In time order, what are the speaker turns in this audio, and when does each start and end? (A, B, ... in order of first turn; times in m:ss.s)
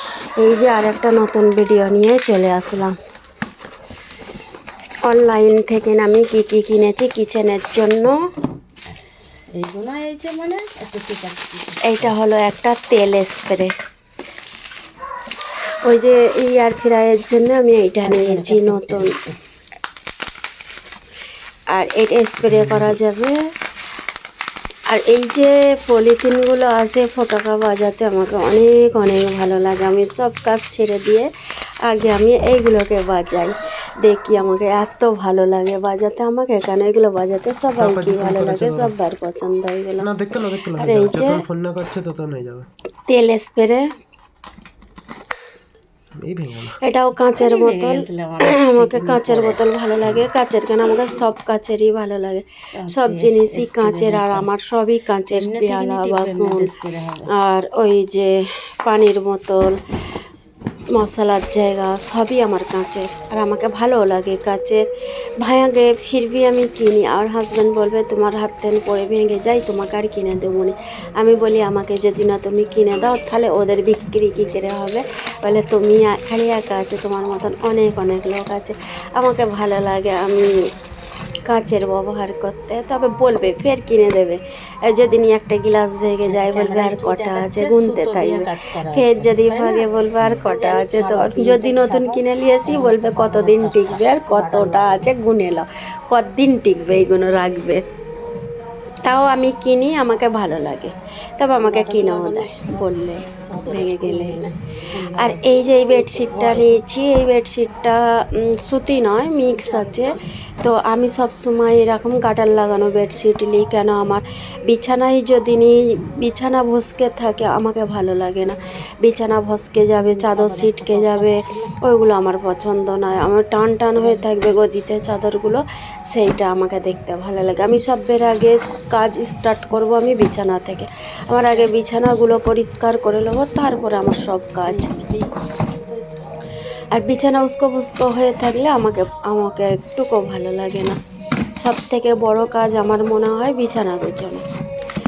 0:00.4-0:02.9 A
0:05.1-0:08.2 A
0:08.9-0:12.1 B
0:11.8-0:13.7 A
0:15.8-0:19.1 A
0:18.0-0:19.3 B
0:21.7-0:23.4 A
0:22.5-0:22.9 C
0:24.9-0:31.3 A
0:31.9-0:40.1 A
0:37.8-0:38.9 C
0:40.0-0:42.7 C
0:40.8-0:41.4 A
0:43.1-0:43.9 A
0:46.2-0:46.8 C
0:46.8-0:56.7 A
0:47.3-0:49.6 B
0:52.8-0:54.5 B
0:55.3-0:57.3 B
0:57.3-0:59.8 A
1:00.9-1:04.8 A
1:05.4-1:20.6 A
1:21.5-1:37.8 A
1:26.2-1:35.1 B
1:39.0-1:44.5 A
1:41.6-1:46.7 B
1:45.2-2:15.0 A
1:49.5-1:50.2 B
2:00.0-2:01.8 B
2:04.0-2:04.2 B
2:11.4-2:12.0 B
2:14.7-2:16.3 B
2:16.9-2:21.0 A
2:21.6-2:24.4 A